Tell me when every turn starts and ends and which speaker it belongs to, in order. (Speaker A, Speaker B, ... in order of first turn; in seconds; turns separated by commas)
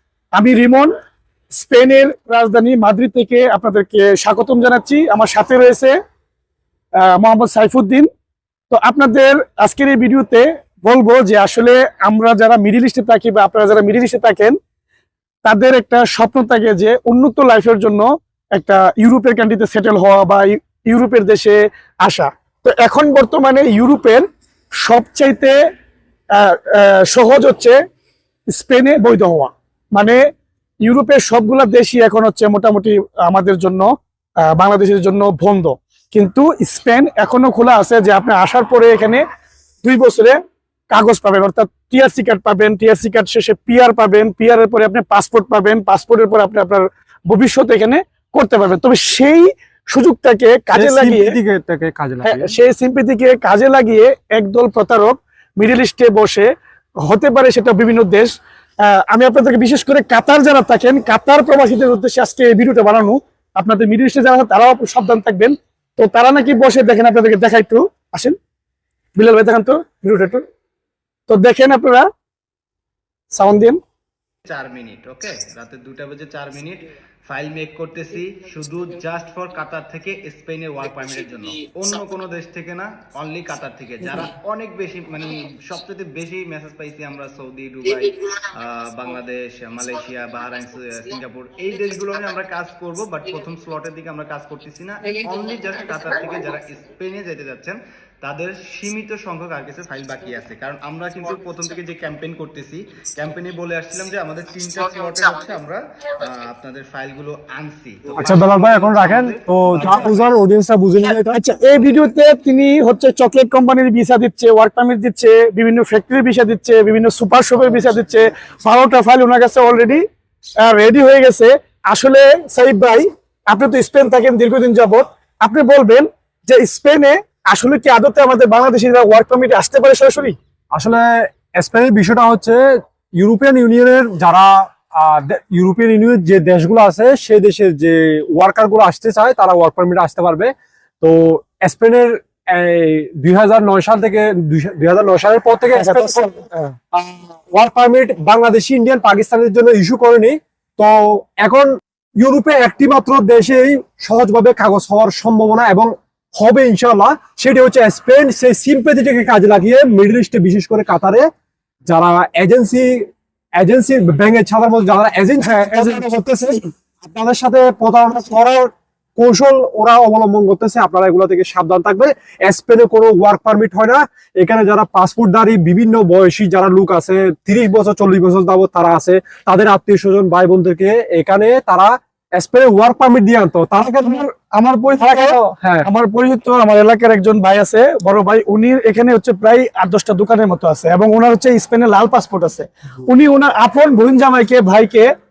Speaker A: 0.3-0.9, Speaker A: 1.5-5.9, Speaker A: 7.0-8.1, Speaker A: 8.7-14.6, Speaker A: 15.4-24.2, Speaker A: 24.8-25.6, Speaker A: 26.3-27.8, Speaker A: 28.5-30.2, Speaker A: 30.8-33.9, Speaker A: 34.5-39.2, Speaker A: 39.8-40.4, Speaker A: 40.9-51.4, Speaker B: 50.7-52.5, Speaker A: 52.2-56.5, Speaker A: 57.0-58.3, Speaker A: 58.8-68.3, Speaker A: 69.2-70.4, Speaker A: 71.3-72.1, Speaker A: 73.3-73.8, Speaker C: 74.5-110.3, Speaker B: 108.1-111.4, Speaker A: 111.3-120.0, Speaker A: 120.6-130.3, Speaker B: 130.7-132.6, Speaker B: 133.2-151.7, Speaker A: 145.7-146.7, Speaker B: 152.2-161.2, Speaker B: 161.9-184.2, Speaker A: 165.4-166.1, Speaker A: 184.0-195.1, Speaker B: 185.0-185.9